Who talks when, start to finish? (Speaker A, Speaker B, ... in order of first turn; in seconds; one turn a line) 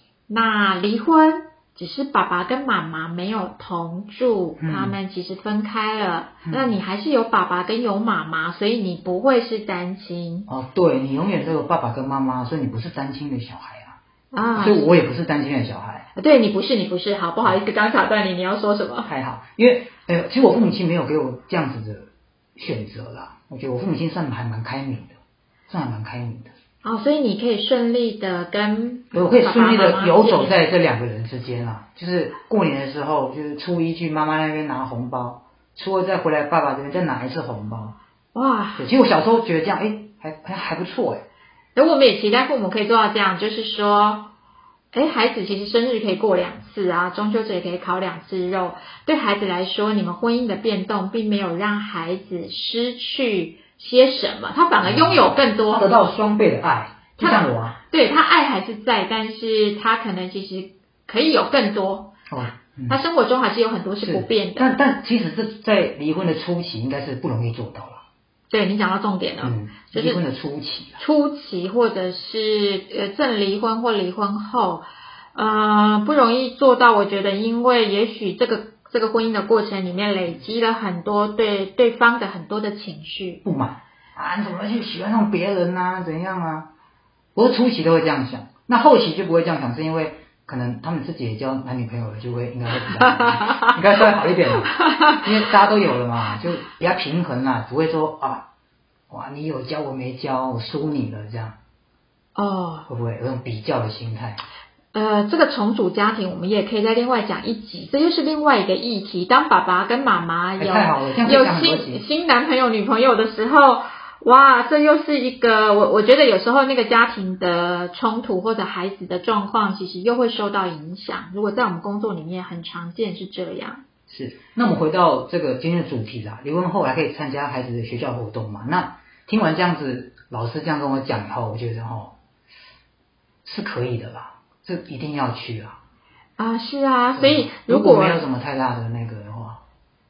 Speaker A: 0.3-10.5
Speaker B: 4.6-5.0
Speaker B: 6.5-6.7
Speaker B: 10.5-14.0
Speaker A: 14.3-14.9
Speaker B: 14.6-16.1
Speaker A: 16.1-19.1
Speaker B: 19.1-25.1
Speaker B: 25.7-26.5
Speaker A: 26.8-30.6
Speaker B: 29.1-38.0
Speaker A: 38.3-38.9
Speaker B: 38.8-41.2
Speaker A: 41.8-44.3
Speaker A: 44.9-56.0
Speaker B: 54.8-57.8
Speaker A: 57.2-62.1
Speaker B: 62.3-63.0
Speaker A: 62.9-64.7
Speaker B: 64.0-68.0
Speaker A: 68.5-70.2
Speaker B: 69.4-71.0
Speaker A: 71.0-83.4
Speaker B: 83.4-86.7
Speaker B: 87.3-98.5
Speaker A: 92.9-93.8
Speaker A: 94.6-95.2
Speaker B: 99.1-101.6
Speaker A: 102.4-102.9
Speaker B: 102.9-104.4
Speaker A: 104.9-123.8
Speaker B: 110.6-112.0
Speaker B: 124.1-132.2
Speaker B: 133.4-135.8
Speaker A: 136.4-138.2
Speaker B: 137.2-139.6